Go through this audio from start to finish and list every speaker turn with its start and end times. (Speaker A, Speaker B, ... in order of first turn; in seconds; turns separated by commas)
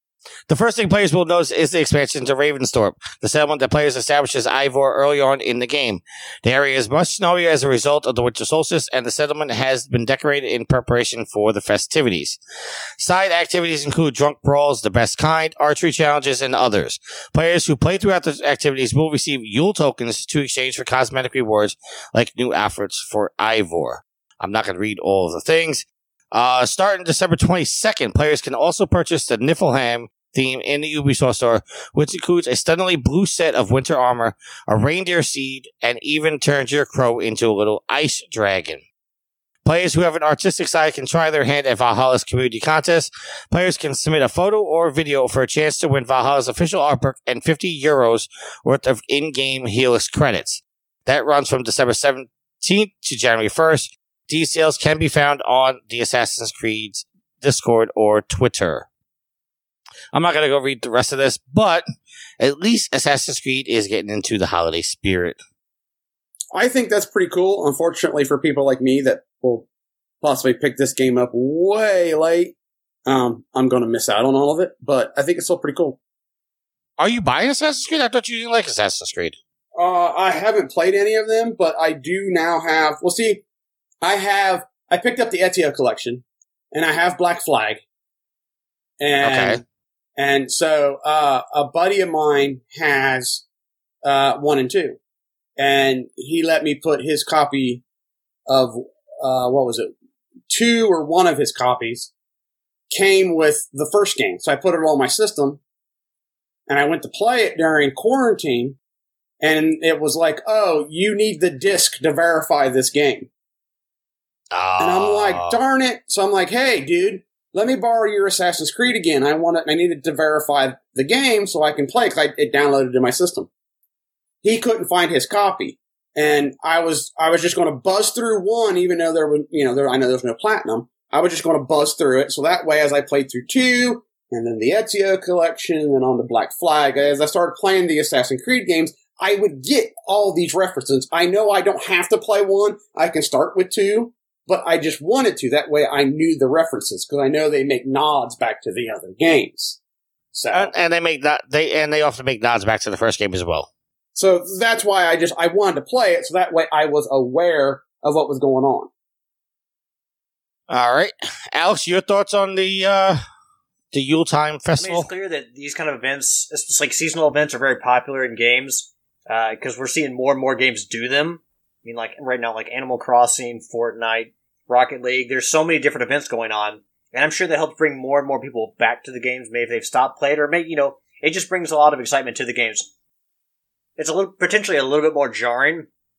Speaker A: 0.5-12.4, Speaker A: 13.0-38.8, Speaker A: 39.6-58.9, Speaker A: 60.1-61.8, Speaker A: 62.4-65.4, Speaker B: 66.5-69.7, Speaker B: 70.2-72.5, Speaker B: 73.0-76.0, Speaker A: 77.0-79.3, Speaker B: 79.8-83.4, Speaker B: 84.0-87.8, Speaker B: 89.0-89.6, Speaker A: 89.2-89.6, Speaker B: 90.2-93.4, Speaker B: 94.0-95.0, Speaker B: 95.6-97.8, Speaker B: 98.5-99.9, Speaker B: 100.5-102.1, Speaker B: 102.9-105.6, Speaker B: 106.7-108.8, Speaker B: 109.4-113.3, Speaker A: 114.5-115.6, Speaker B: 114.8-123.5, Speaker B: 124.4-149.8, Speaker B: 150.3-150.7, Speaker A: 150.5-153.7, Speaker B: 154.2-158.9, Speaker A: 160.7-163.2, Speaker A: 163.9-165.1, Speaker C: 164.8-182.9, Speaker C: 184.0-185.9